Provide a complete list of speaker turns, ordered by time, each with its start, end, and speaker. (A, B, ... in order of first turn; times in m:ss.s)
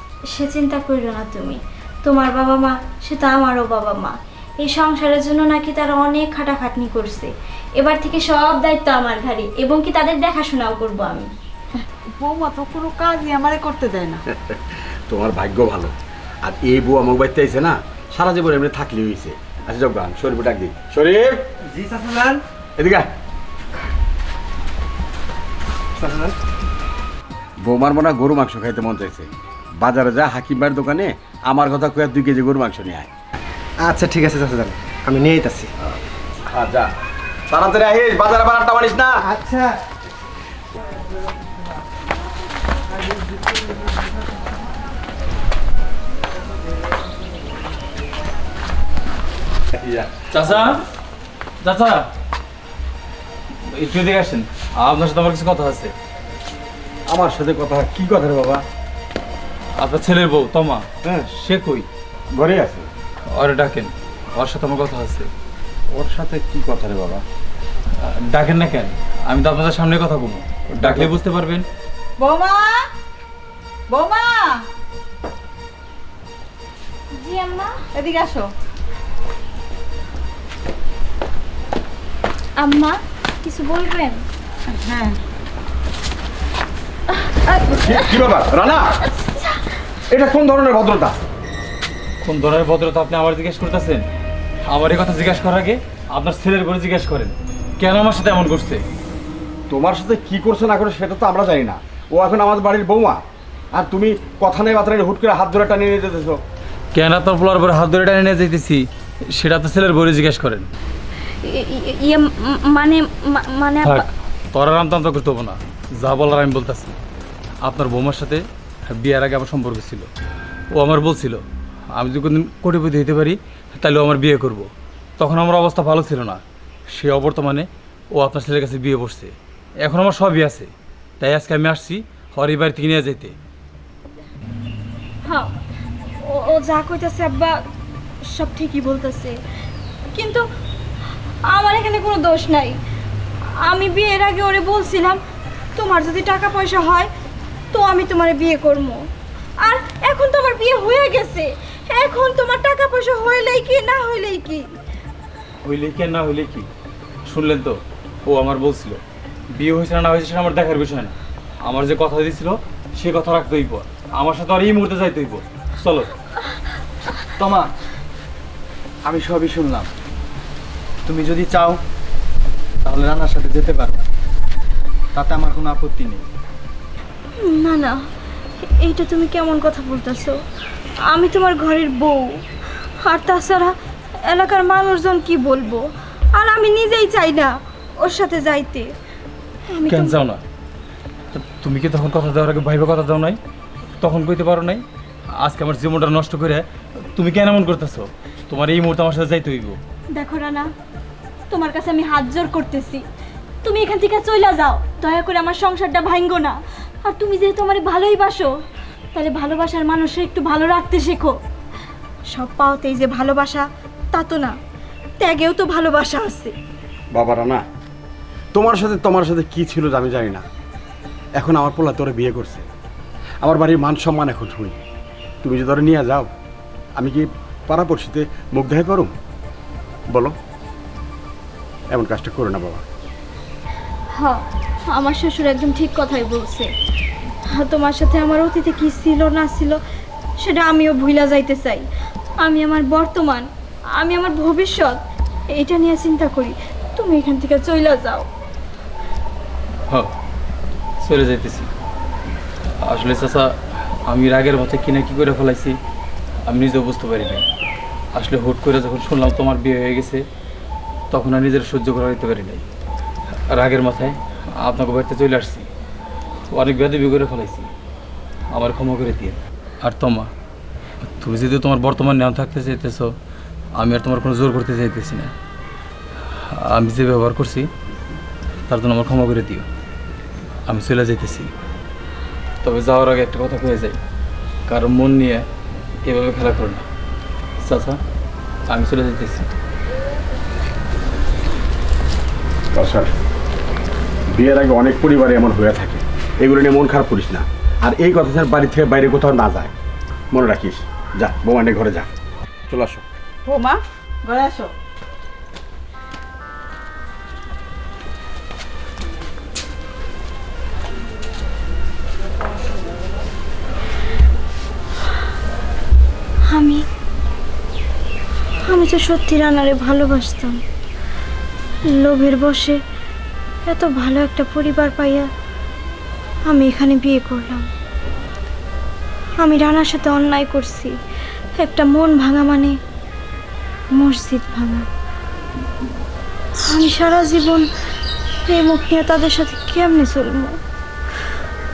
0:00.3-0:11.3 A
0:12.2-0:14.2 B
0:14.3-0:21.4 C
0:21.7-0:22.4 D
0:22.8-0:23.1 C
0:26.0-0:26.4 D
0:27.6-0:33.1 C
0:33.8-0:35.7 D
0:36.5-0:36.9 C
0:37.5-0:39.2 C
0:39.3-0:39.7 D
0:49.7-0:50.7 C
0:50.3-0:50.8 E
0:51.6-0:52.0 E
0:53.7-0:55.9 E
0:57.1-0:58.6 C
0:59.8-1:01.9 E
1:02.3-1:02.9 C
1:03.3-1:05.3 E
1:05.9-1:07.2 C
1:08.0-1:11.7 E
1:10.8-1:11.1 C
1:12.2-1:12.8 B
1:13.9-1:14.6 B
1:17.2-1:17.8 A
1:18.0-1:18.5 B
1:22.6-1:24.2 A
1:24.7-1:25.2 B
1:27.7-1:28.9 C
1:29.1-1:29.6 A
1:30.1-1:31.2 C
1:32.2-1:34.0 E
1:34.7-1:38.8 E
1:39.7-1:43.2 C
1:43.7-1:46.4 C
1:46.9-1:50.7 E
1:51.4-1:54.1 A
1:53.8-1:57.0 E
1:57.6-2:00.1 E
2:00.7-2:01.4 E
2:01.9-2:13.3 E
2:15.3-2:15.5 A
2:16.2-2:17.6 A
2:18.3-2:19.4 A
2:20.1-2:20.5 A
2:21.5-2:22.8 A
2:23.6-2:25.2 A
2:25.8-2:27.1 A
2:27.7-2:29.0 A
2:29.6-2:34.7 A
2:35.6-2:36.7 E
2:37.3-2:39.0 E
2:39.5-2:46.1 E
2:47.4-2:47.7 F
2:49.1-2:49.9 F
2:51.1-2:51.8 F
2:52.8-2:54.0 F
2:55.1-2:56.2 F
2:57.4-2:58.0 A
2:58.6-3:00.4 A
3:01.1-3:02.4 A
3:03.0-3:08.9 A
3:09.7-3:10.2 A
3:09.9-3:10.4 E
3:11.3-3:13.4 E
3:14.0-3:14.8 E
3:15.4-3:19.8 E
3:20.2-3:20.7 A
3:21.5-3:23.0 A
3:23.6-3:28.5 A
3:29.1-3:31.4 A
3:32.3-3:34.6 A
3:35.2-3:36.5 A
3:37.1-3:37.6 C
3:38.5-3:40.4 C
3:41.4-3:42.6 C
3:43.4-3:44.8 C
3:45.4-3:46.3 C
3:47.0-3:49.1 C
3:51.9-3:52.8 C
3:54.1-3:56.7 A
3:57.5-3:59.8 A
4:00.4-4:01.9 A
4:02.4-4:08.3 A
4:11.0-4:11.7 E
4:12.8-4:15.8 E
4:16.5-4:17.4 E
4:18.2-4:20.2 E
4:21.1-4:22.6 E
4:23.5-4:25.7 E
4:26.5-4:27.7 E
4:28.5-4:30.3 E
4:31.0-4:33.1 E
4:33.8-4:35.3 E
4:36.5-4:37.7 E
4:38.7-4:39.7 E
4:40.7-4:41.5 E
4:42.6-4:44.0 E
4:44.7-4:45.4 E
4:46.1-4:46.8 E
4:47.6-4:48.0 E
4:48.7-4:49.5 E
4:52.7-4:53.1 C
4:54.3-4:59.7 C
5:00.3-5:02.1 C
5:02.7-5:03.0 C
5:03.5-5:04.7 B
5:16.5-5:16.9 A
5:18.6-5:20.6 A
5:21.9-5:22.8 A
5:23.7-5:25.3 A
5:26.5-5:27.7 A
5:29.4-5:31.0 A
5:31.6-5:32.8 A
5:33.9-5:34.9 A
5:36.6-5:37.7 A
5:38.4-5:40.6 A